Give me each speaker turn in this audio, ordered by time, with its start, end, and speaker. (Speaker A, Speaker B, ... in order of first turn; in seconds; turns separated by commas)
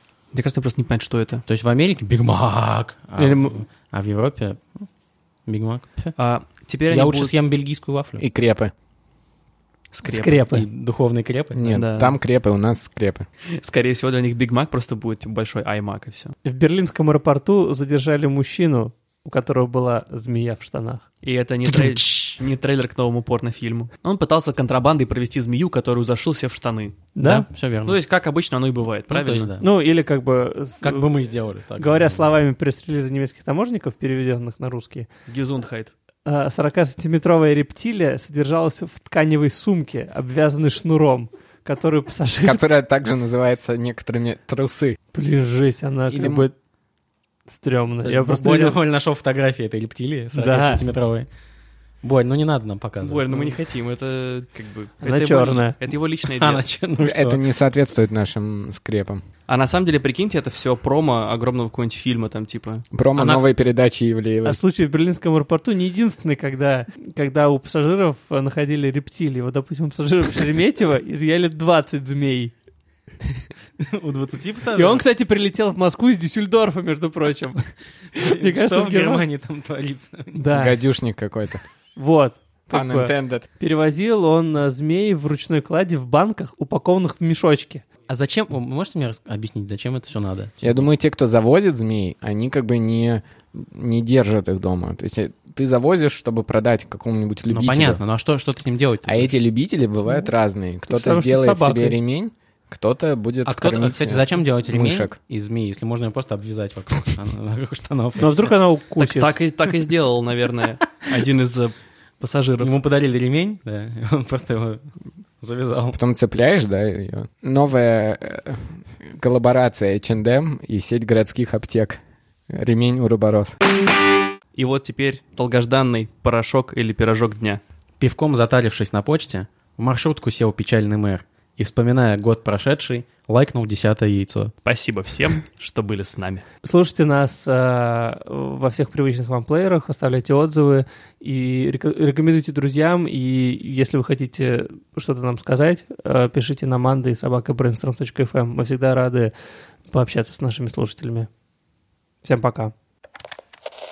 Speaker A: 0.3-1.4, Speaker B: 1.4-4.9, Speaker A: 3.2-3.5, Speaker B: 5.5-6.1, Speaker A: 6.2-7.3, Speaker B: 6.9-8.2, Speaker C: 8.2-8.7, Speaker A: 9.9-10.4, Speaker D: 10.1-10.6, Speaker B: 10.5-11.8, Speaker C: 11.5-13.3, Speaker A: 11.7-12.2, Speaker A: 13.4-16.3, Speaker D: 16.4-21.0, Speaker A: 21.2-27.0, Speaker B: 21.7-22.4, Speaker D: 27.1-27.4, Speaker B: 27.2-28.0, Speaker A: 27.9-29.5, Speaker B: 29.1-29.7, Speaker D: 29.6-31.1, Speaker B: 30.8-32.3, Speaker D: 31.8-35.1, Speaker A: 35.3-35.9, Speaker D: 36.2-42.6, Speaker C: 42.4-45.0, Speaker D: 45.1-46.5, Speaker C: 46.1-46.5, Speaker D: 47.5-48.8, Speaker B: 48.0-51.3, Speaker D: 50.3-50.8, Speaker B: 52.0-53.5, Speaker A: 53.0-56.6, Speaker D: 55.0-55.7, Speaker B: 56.3-57.4, Speaker C: 57.0-59.2, Speaker A: 59.5-62.9, Speaker C: 62.9-64.6, Speaker B: 63.1-63.4, Speaker D: 64.4-72.5, Speaker B: 73.8-75.0, Speaker D: 74.7-79.2, Speaker B: 78.1-80.4, Speaker D: 80.3-80.8, Speaker C: 80.5-81.6, Speaker D: 82.0-87.8, Speaker C: 82.7-83.5, Speaker B: 88.1-90.8, Speaker C: 90.6-98.0, Speaker B: 97.5-99.3, Speaker C: 99.0-105.2, Speaker D: 100.9-102.0, Speaker B: 103.4-108.5, Speaker D: 108.2-109.3, Speaker A: 109.0-112.7, Speaker B: 112.6-114.8, Speaker B: 115.4-116.0, Speaker C: 115.9-123.6, Speaker A: 124.5-127.6, Speaker B: 128.0-134.5, Speaker A: 134.6-136.4, Speaker D: 136.6-149.3, Speaker D: 149.9-151.3, Speaker D: 152.2-152.7